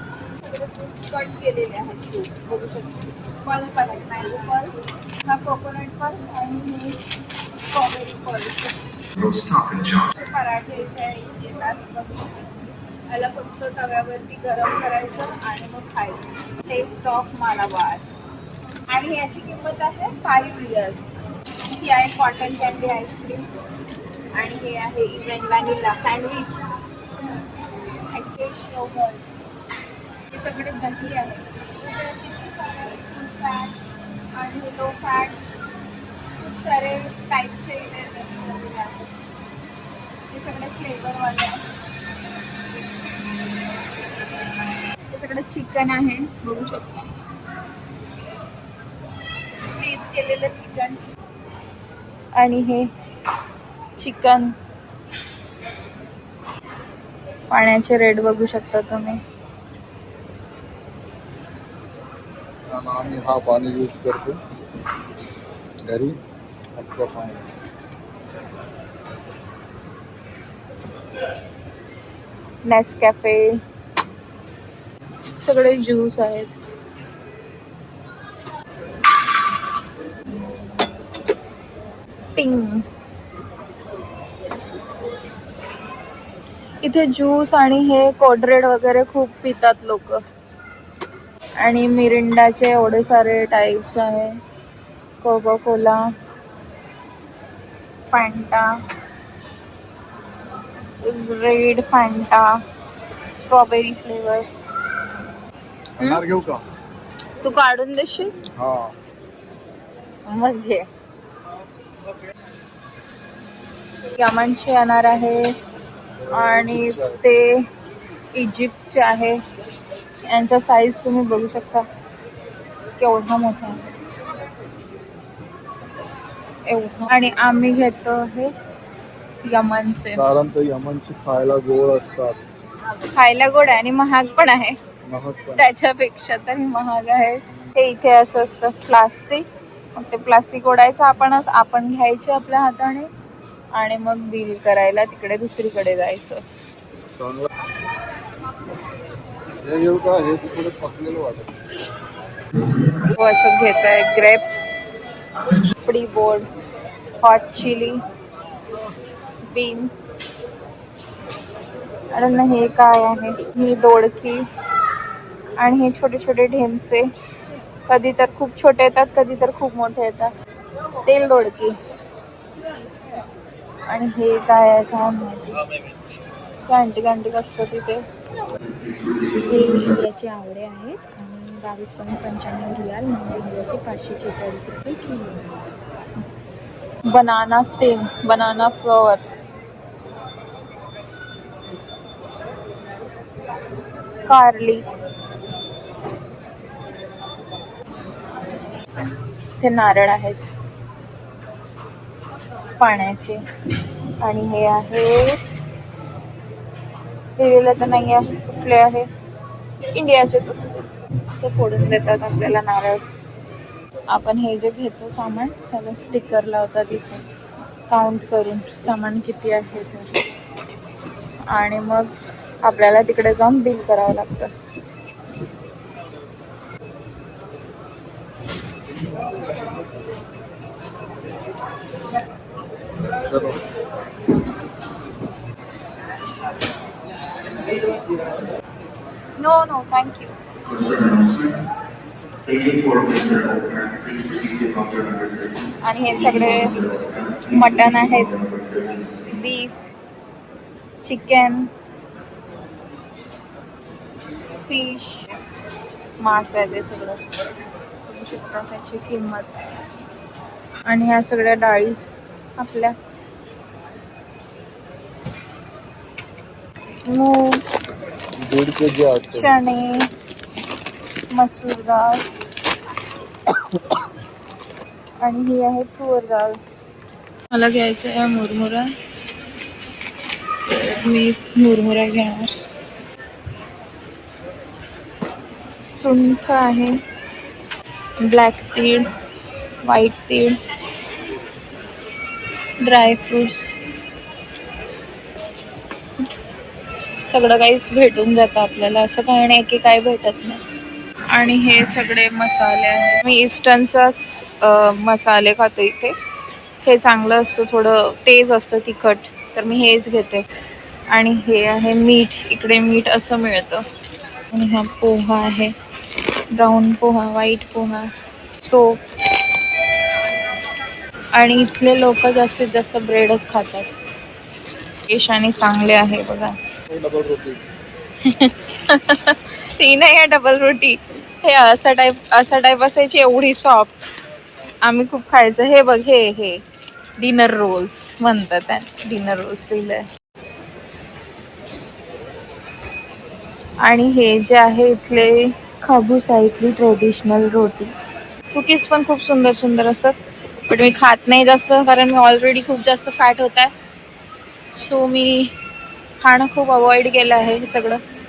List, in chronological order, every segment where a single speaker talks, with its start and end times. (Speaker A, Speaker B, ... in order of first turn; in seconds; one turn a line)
Speaker A: 0.4-7.0
Speaker A: 7.7-8.8
Speaker B: 9.2-10.0
Speaker A: 10.1-18.1
Speaker A: 18.9-21.0
Speaker A: 21.7-23.5
Speaker A: 24.4-26.6
Speaker A: 28.1-29.2
Speaker A: 30.3-33.8
Speaker A: 34.4-35.4
Speaker A: 36.4-39.1
Speaker A: 40.3-41.6
Speaker A: 45.1-47.1
Speaker A: 49.7-51.0
Speaker A: 52.4-52.9
Speaker A: 54.0-54.5
Speaker A: 57.5-59.2
Speaker C: 62.7-64.4
Speaker C: 65.8-66.2
Speaker C: 66.8-67.5
Speaker A: 72.7-73.6
Speaker A: 75.4-76.5
Speaker A: 82.4-82.8
Speaker A: 86.8-90.2
Speaker A: 91.6-94.3
Speaker A: 95.2-96.0
Speaker A: 98.1-98.7
Speaker A: 101.0-102.6
Speaker A: 103.3-104.5
Speaker C: 106.0-106.6
Speaker A: 106.0-106.2
Speaker A: 107.4-108.4
Speaker C: 108.5-108.9
Speaker A: 110.3-110.9
Speaker A: 114.1-115.5
Speaker C: 116.2-117.2
Speaker A: 116.3-117.6
Speaker A: 118.3-119.4
Speaker A: 120.3-121.9
Speaker A: 123.0-123.9
Speaker A: 126.7-128.5
Speaker A: 129.4-130.2
Speaker C: 130.2-132.4
Speaker A: 133.1-134.8
Speaker C: 135.1-135.7
Speaker A: 135.6-143.1
Speaker A: 143.8-146.4
Speaker C: 147.2-147.5
Speaker C: 149.6-151.6
Speaker A: 152.9-155.0
Speaker A: 155.8-156.5
Speaker A: 157.2-158.0
Speaker A: 159.5-160.4
Speaker A: 162.1-164.4
Speaker A: 165.6-167.1
Speaker A: 167.9-170.3
Speaker A: 171.1-171.8
Speaker A: 173.9-175.6
Speaker A: 176.7-178.0
Speaker B: 178.6-179.9
Speaker A: 179.5-185.5
Speaker A: 187.1-189.2
Speaker A: 194.3-194.8
Speaker A: 199.6-200.5
Speaker A: 202.8-203.4
Speaker A: 204.2-205.4
Speaker A: 207.4-209.1
Speaker A: 209.9-210.8
Speaker A: 211.4-213.0
Speaker A: 214.1-217.2
Speaker A: 217.9-220.1
Speaker A: 221.5-222.1
Speaker A: 222.6-224.5
Speaker C: 229.0-229.7
Speaker C: 233.2-233.6
Speaker A: 239.4-240.4
Speaker B: 240.7-241.6
Speaker B: 242.4-249.3
Speaker A: 245.8-246.7
Speaker A: 247.5-248.3
Speaker A: 249.3-249.9
Speaker A: 251.0-251.7
Speaker A: 254.7-255.4
Speaker A: 256.2-257.2
Speaker A: 258.1-259.5
Speaker A: 260.9-262.0
Speaker A: 262.6-262.9
Speaker A: 267.1-267.6
Speaker C: 268.4-269.5
Speaker A: 269.3-270.1
Speaker A: 271.3-272.2
Speaker A: 275.2-276.6
Speaker A: 277.5-278.9
Speaker A: 280.7-282.6
Speaker A: 285.9-287.0
Speaker A: 288.2-289.1
Speaker A: 289.9-290.6
Speaker A: 292.8-293.8
Speaker A: 297.3-300.6
Speaker A: 301.3-306.1
Speaker A: 306.8-310.4
Speaker A: 311.1-313.8
Speaker A: 314.5-315.7
Speaker A: 316.5-318.1
Speaker A: 318.6-319.0
Speaker A: 321.3-323.9
Speaker A: 325.1-326.6
Speaker C: 326.9-327.6
Speaker A: 328.2-334.0
Speaker A: 334.8-336.6
Speaker A: 337.2-340.1
Speaker A: 343.8-347.9
Speaker A: 348.5-350.1
Speaker A: 350.7-353.7
Speaker A: 354.7-355.5
Speaker A: 356.2-358.0